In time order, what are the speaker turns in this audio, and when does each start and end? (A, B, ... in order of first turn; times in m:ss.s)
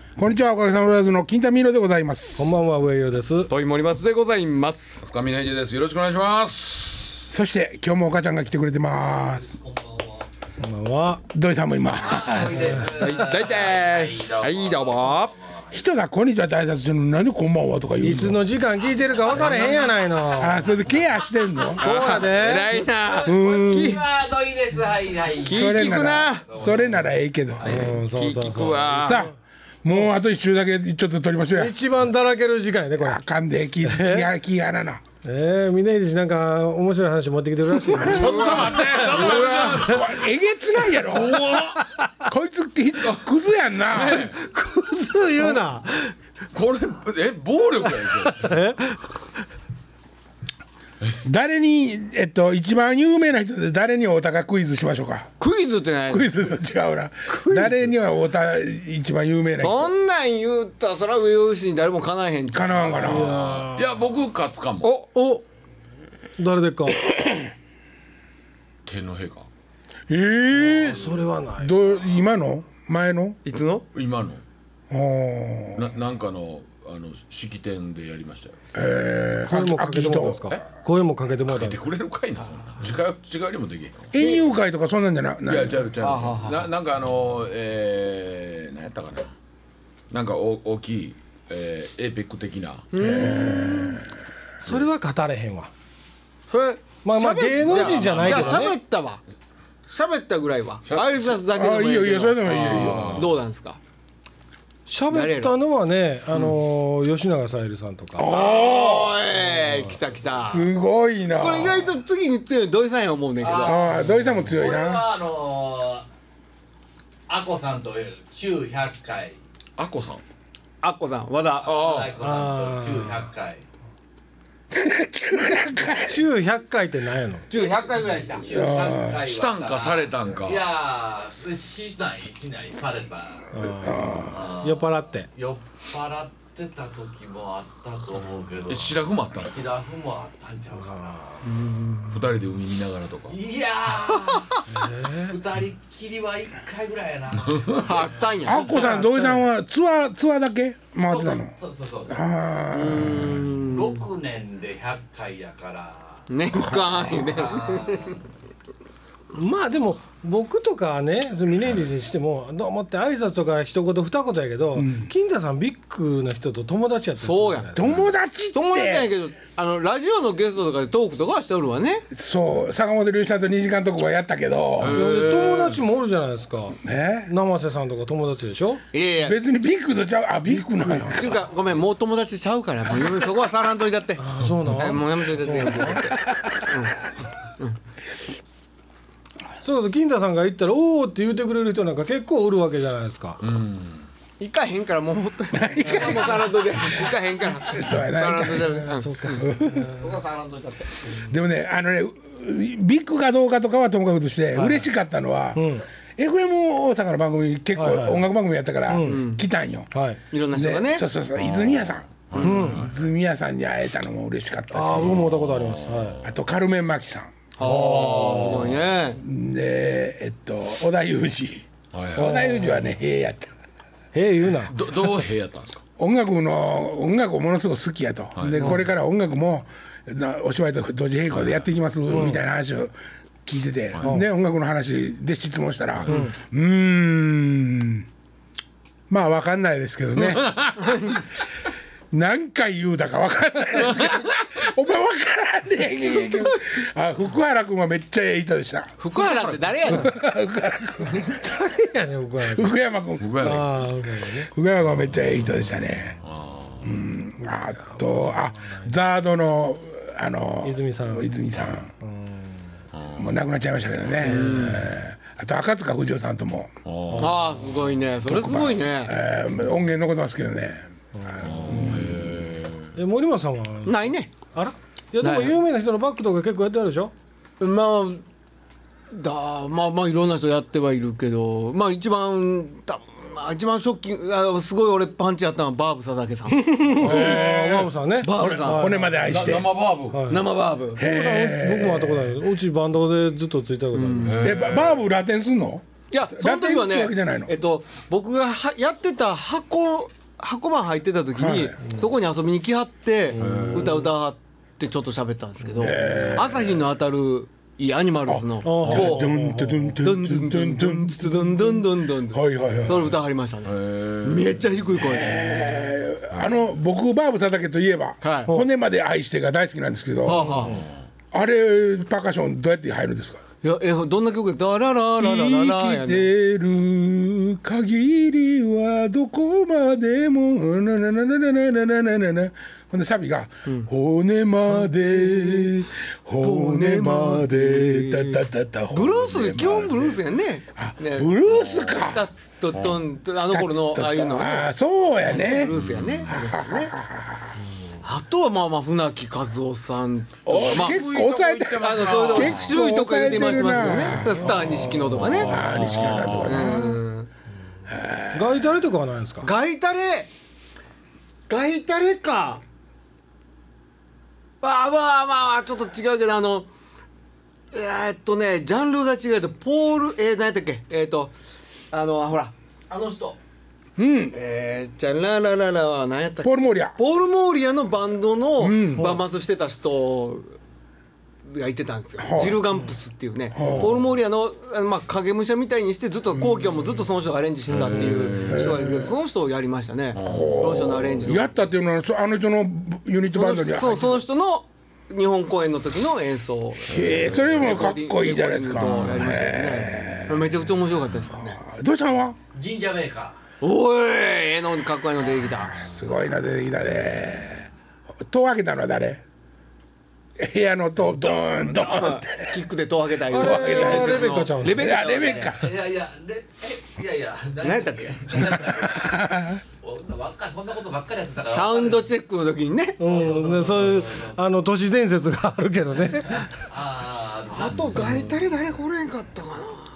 0:00.2-0:02.5 A
0:02.4-0:03.5 B
0:03.5-0:05.0 C
0:05.0-0:07.3 D
0:07.3-0:09.5 A
0:09.5-0:10.3 E
0:10.6-0:11.2 B
0:11.3-0:12.9 A
0:12.0-0:15.8 E
0:12.5-0:13.0 B
0:12.9-0:15.3 C
0:15.7-0:18.4 A
0:18.0-0:20.6 B
0:18.9-0:20.3 E
0:20.4-0:22.0 A
0:21.8-0:24.0 C
0:21.8-0:22.7 B
0:23.1-0:27.0 E
0:23.2-0:24.0 A
0:25.4-0:26.5 C
0:25.4-0:27.9 A
0:27.6-0:29.3 C
0:27.6-0:29.3 B
0:29.0-0:31.8 A
0:31.5-0:33.2 B
0:33.0-0:35.0 A
0:33.8-0:34.3 B
0:35.2-0:38.5 B
0:37.9-0:40.0 C
0:38.1-0:40.1 D
0:38.2-0:41.4 A
0:38.2-0:39.9 E
0:40.9-0:41.8 D
0:42.2-0:44.3 A
0:43.9-0:44.4 D
0:44.5-0:46.1 C
0:44.6-0:45.7 B
0:46.5-0:48.6 D
0:48.2-0:48.8 B
0:51.2-0:55.3 A
0:55.4-0:56.3 C
0:56.1-0:59.9 A
0:57.3-0:57.9 C
0:59.6-1:03.2 C
1:02.5-1:03.4 A
1:03.0-1:04.0 B
1:03.1-1:04.9 D
1:04.8-1:05.1 C
1:05.1-1:05.4 B
1:06.4-1:07.0 B
1:08.8-1:09.5 D
1:10.1-1:13.4 A
1:10.5-1:11.8 B
1:13.4-1:13.8 C
1:13.9-1:14.4 D
1:14.9-1:15.9 A
1:15.7-1:18.6 D
1:18.7-1:20.4 A
1:19.4-1:21.8 B
1:21.4-1:24.1 D
1:24.1-1:25.9 A
1:24.2-1:24.5 C
1:25.5-1:29.3 D
1:26.0-1:26.6 C
1:30.1-1:32.9 D
1:32.9-1:33.7 C
1:33.0-1:34.0 A
1:33.0-1:33.4 B
1:34.6-1:35.7 B
1:36.5-1:39.2 C
1:37.0-1:38.8 B
1:37.6-1:38.8 D
1:39.9-1:43.8 C
1:40.8-1:41.4 D
1:41.5-1:43.3 A
1:42.4-1:43.4 D
1:44.9-1:48.3 B
1:45.1-1:45.5 C
1:48.1-1:49.2 A
1:48.2-1:50.7 C
1:49.4-1:49.9 B
1:50.4-1:51.9 A
1:51.4-1:54.0 C
1:53.4-1:56.0 E
1:53.6-1:55.0 A
1:57.3-1:59.4 E
1:59.8-2:00.2 D
2:00.8-2:01.8 C
2:01.6-2:02.2 D
2:01.6-2:03.6 E
2:02.2-2:03.3 B
2:04.7-2:06.2 A
2:06.0-2:07.5 B
2:07.5-2:08.5 C
2:08.3-2:13.5 E
2:08.5-2:09.2 A
2:09.1-2:10.7 D
2:13.5-2:15.3 B
2:13.8-2:14.4 A
2:14.3-2:21.5 E
2:18.7-2:19.6 D
2:21.5-2:22.0 C
2:22.1-2:23.4 D
2:23.3-2:24.6 E
2:24.7-2:25.4 B
2:25.2-2:28.9 E
2:27.5-2:27.8 D
2:27.8-2:29.0 C
2:28.4-2:31.5 A
2:28.9-2:29.4 B
2:31.0-2:32.2 E
2:32.1-2:33.4 A
2:32.7-2:34.0 C
2:33.7-2:36.2 E
2:36.3-2:38.1 C
2:36.5-2:37.1 A
2:37.0-2:38.2 E
2:39.3-2:48.1 B
2:44.7-2:45.1 A
2:47.2-2:47.9 C
2:47.7-2:49.1 A
2:48.5-2:52.0 C
2:52.1-2:55.0 A
2:54.8-2:55.8 D
2:54.8-2:58.8 B
2:56.8-2:57.3 A
2:58.9-2:59.4 C
2:59.2-3:01.4 A
3:00.5-3:01.2 B
3:01.0-3:07.0 C
3:04.2-3:06.1 B
3:04.4-3:05.0 D
3:09.6-3:13.4 B
3:13.4-3:14.1 D
3:14.4-3:19.4 C
3:15.5-3:16.7 A
3:15.8-3:16.2 B
3:17.7-3:18.8 A
3:18.7-3:20.2 B
3:19.4-3:19.9 A
3:19.8-3:21.1 E
3:21.2-3:29.9 A
3:24.5-3:24.9 B
3:25.5-3:25.8 B
3:27.8-3:28.3 B
3:28.9-3:29.2 B
3:29.0-3:29.4 C
3:29.9-3:30.2 B
3:30.3-3:31.0 C
3:30.5-3:35.3 A
3:31.4-3:33.0 D
3:32.4-3:32.8 B
3:34.7-3:36.2 B
3:34.9-3:36.3 D
3:36.2-3:37.3 A
3:37.6-3:39.2 C
3:37.6-3:38.7 B
3:37.6-3:38.9 D
3:39.2-3:43.5 A
3:41.9-3:42.4 D
3:42.2-3:42.9 B
3:44.1-3:44.8 B
3:44.7-3:45.8 D
3:46.0-3:52.9 A
3:48.3-3:48.8 D
3:48.6-3:48.8 B
3:51.3-3:51.6 D
3:52.1-3:52.4 B
3:53.4-3:58.0 A
3:56.0-3:56.3 D
3:56.1-3:56.3 B
3:59.1-4:01.0 A
4:00.2-4:00.8 D
4:02.1-4:08.9 A
4:09.0-4:10.1 C
4:09.1-4:09.9 D
4:09.9-4:11.5 A
4:11.3-4:12.7 B
4:12.4-4:13.5 A
4:13.2-4:13.7 D
4:13.4-4:14.5 B
4:14.5-4:16.2 A
4:14.9-4:15.6 D
4:16.1-4:17.0 D
4:16.8-4:21.9 A
4:17.4-4:19.0 B
4:20.6-4:21.4 B
4:22.0-4:22.6 B
4:22.9-4:23.4 D
4:23.2-4:26.7 A
4:24.2-4:24.8 C
4:24.2-4:24.9 D
4:26.8-4:28.0 D
4:27.1-4:27.4 B
4:27.2-4:29.1 C
4:28.2-4:32.3 A
4:31.2-4:31.6 B
4:31.4-4:33.0 D
4:32.9-4:37.1 B
4:33.8-4:34.3 C
4:35.2-4:35.6 C
4:37.6-4:38.2 C
4:39.1-4:47.4 C
4:46.6-4:49.7 A
4:46.9-4:49.6 B
4:48.2-4:49.0 C
4:49.2-4:50.4 D
4:50.1-4:54.5 B
4:50.3-4:51.0 C
4:50.9-4:52.4 A
4:53.9-4:54.6 C
4:54.2-4:55.0 D
4:54.4-4:57.5 A
4:56.1-5:09.3 C
5:01.3-5:01.8 A
5:03.4-5:04.1 B
5:03.4-5:04.1 D
5:05.7-5:06.8 A
5:08.3-5:13.2 A
5:08.6-5:10.0 B
5:10.0-5:15.9 C
5:13.6-5:14.7 D
5:15.0-5:20.8 A
5:18.2-5:18.5 C
5:20.2-5:20.9 C
5:20.6-5:21.0 D
5:21.3-5:23.4 A
5:23.6-5:26.3 C
5:25.2-5:40.2 A
5:34.7-5:35.8 C
5:36.4-5:44.7 C
5:40.8-5:42.3 A
5:41.5-5:42.0 D
5:42.7-5:43.0 D
5:43.5-5:45.7 A
5:45.2-5:47.0 C
5:45.7-5:46.3 D
5:46.3-5:47.6 A
5:48.0-5:51.0 C
5:50.4-5:54.9 A
5:50.5-5:52.8 D
5:51.8-5:55.5 C
5:54.0-5:56.3 B
5:55.1-5:56.8 D
5:55.4-5:57.0 A
5:56.4-5:57.3 C
5:57.9-5:58.6 A
5:58.3-5:59.5 B
5:59.4-6:00.3 C
6:01.5-6:02.6 C
6:04.6-6:06.7 C
6:07.7-6:11.3 C
6:11.9-6:13.3 C
6:12.9-6:13.4 E
6:14.0-6:14.4 A
6:14.3-6:20.5 C
6:16.4-6:17.0 A
6:18.6-6:19.2 A
6:21.4-6:31.5 C
6:22.2-6:22.6 A
6:23.5-6:24.0 A
6:23.6-6:24.1 D
6:26.3-6:26.7 A
6:27.7-6:28.8 D
6:28.4-6:29.1 A
6:30.1-6:31.1 D
6:30.2-6:34.2 A
6:33.3-6:41.6 C
6:36.8-6:40.6 A
6:36.9-6:37.8 D
6:41.4-6:42.4 A
6:42.5-6:43.4 E
6:43.6-6:45.8 C
6:45.8-6:47.7 A
6:48.2-6:49.2 A
6:50.4-6:52.6 A
6:51.2-6:55.5 C
6:53.3-6:55.0 B
6:53.3-6:55.7 A
6:55.2-7:02.1 E
6:57.6-6:58.4 C
6:58.8-6:59.6 A
7:01.5-7:03.0 C
7:03.0-7:06.5 B
7:03.0-7:04.4 E
7:06.6-7:07.9 E
7:07.5-7:09.9 C
7:07.9-7:08.2 D